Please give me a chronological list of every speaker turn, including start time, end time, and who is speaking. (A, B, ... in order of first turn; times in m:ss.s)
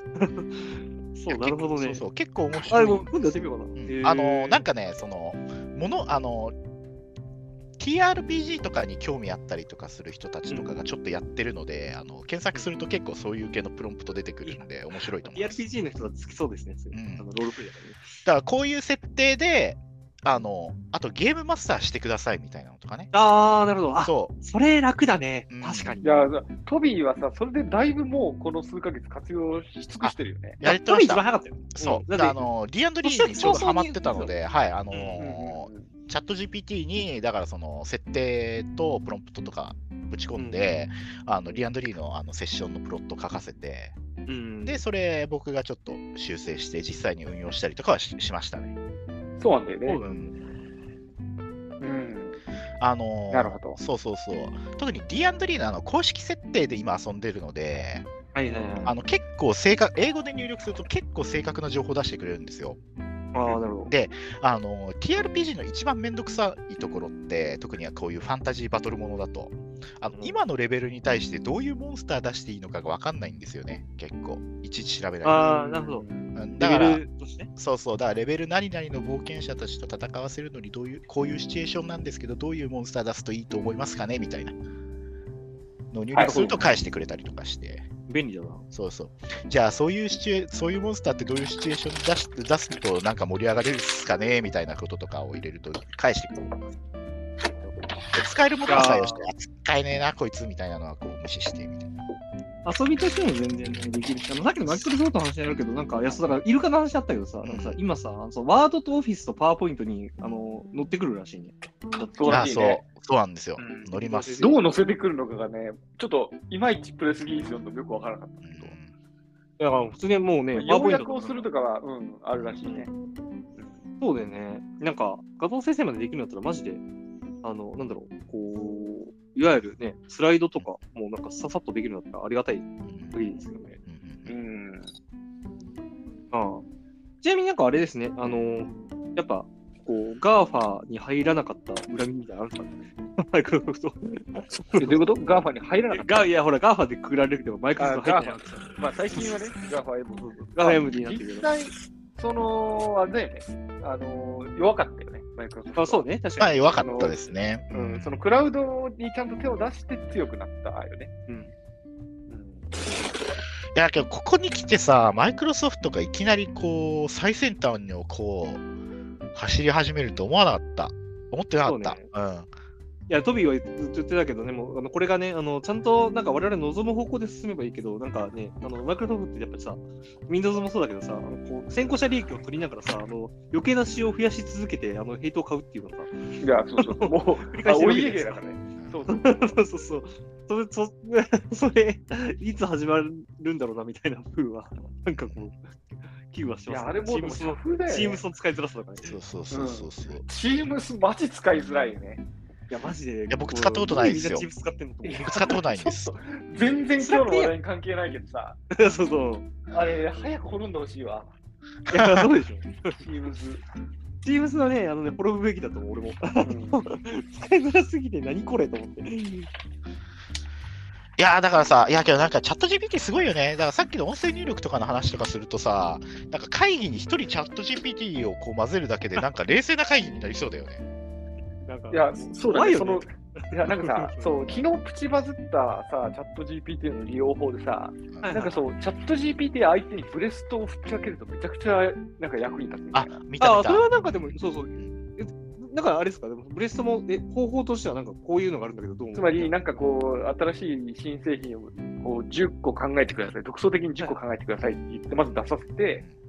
0:00.1-0:02.0 A
0:01.3-0:06.6 B
0:02.7-0:04.7 A
0:07.8-0:15.6 B
0:10.5-0:10.8 A
0:15.2-0:18.2 A
0:16.9-0:17.3 B
0:18.2-0:23.1 B
0:23.1-0:26.2 A
0:24.0-0:24.3 B
0:25.5-0:26.0 B
0:26.0-0:30.6 C
0:30.0-0:44.0 B
0:30.6-0:32.4 A
0:33.0-0:34.3 A
0:34.9-0:35.9 C
0:40.4-0:40.6 A
0:44.3-0:44.8 A
0:44.7-0:48.7 B
0:49.4-0:50.0 C
0:49.9-0:50.3 A
0:50.0-0:50.3 B
0:51.8-0:52.4 C
0:52.8-0:58.1 B
0:53.3-0:53.8 C
0:58.4-0:58.9 A
0:58.5-0:58.9 C
0:58.9-1:02.8 B
1:03.3-1:03.9 A
1:03.9-1:15.6 B
1:10.1-1:10.4 A
1:15.2-1:16.0 A
1:15.5-1:16.3 C
1:16.4-1:17.0 B
1:16.6-1:17.5 A
1:17.6-1:24.6 B
1:25.9-1:27.9 B
1:26.1-1:26.4 C
1:26.2-1:26.6 A
1:28.1-1:28.6 A
1:28.7-1:36.6 B
1:38.1-1:41.9 B
1:38.7-1:39.3 A
1:42.6-1:52.5 A
1:47.4-1:47.8 B
1:52.1-1:52.8 C
1:52.3-1:54.4 B
1:53.6-1:58.7 C
1:54.0-1:54.6 A
1:58.4-1:58.9 B
1:59.6-2:01.5 A
2:00.5-2:02.9 C
2:03.6-2:03.8 C
2:04.0-2:06.8 A
2:07.4-2:13.8 A
2:12.8-2:13.2 B
2:13.8-2:14.3 B
2:14.3-2:14.9 C
2:16.3-2:16.6 A
2:17.2-2:25.0 A
2:24.8-2:26.3 C
2:25.9-2:28.8 A
2:27.8-2:36.0 C
2:30.2-2:31.5 A
2:35.8-2:37.1 A
2:36.4-2:38.2 B
2:36.8-2:41.1 C
2:41.3-2:41.5 A
2:42.3-2:43.0 C
2:43.7-2:48.6 B
2:49.3-2:52.5 B
2:51.6-2:52.1 A
2:53.1-3:08.4 A
3:06.4-3:09.3 C
3:08.8-3:09.1 B
3:09.1-3:15.7 A
3:15.2-3:15.5 B
3:16.3-3:19.1 A
3:16.7-3:18.2 C
3:19.0-3:20.2 B
3:19.5-3:22.2 C
3:22.7-3:25.4 A
3:23.3-3:24.5 B
3:25.0-3:28.6 C
3:25.2-3:26.1 B
3:27.0-3:27.5 A
3:28.7-3:29.5 A
3:29.7-3:31.3 C
3:31.9-3:33.0 A
3:31.9-3:32.3 B
3:32.9-3:33.6 C
3:34.2-3:39.5 A
3:36.4-3:36.8 C
3:41.2-3:50.8 B
3:51.7-3:54.6 A
3:51.9-4:03.2 C
3:58.2-3:58.6 A
4:02.9-4:05.0 B
4:03.4-4:09.5 A
4:09.2-4:16.0 C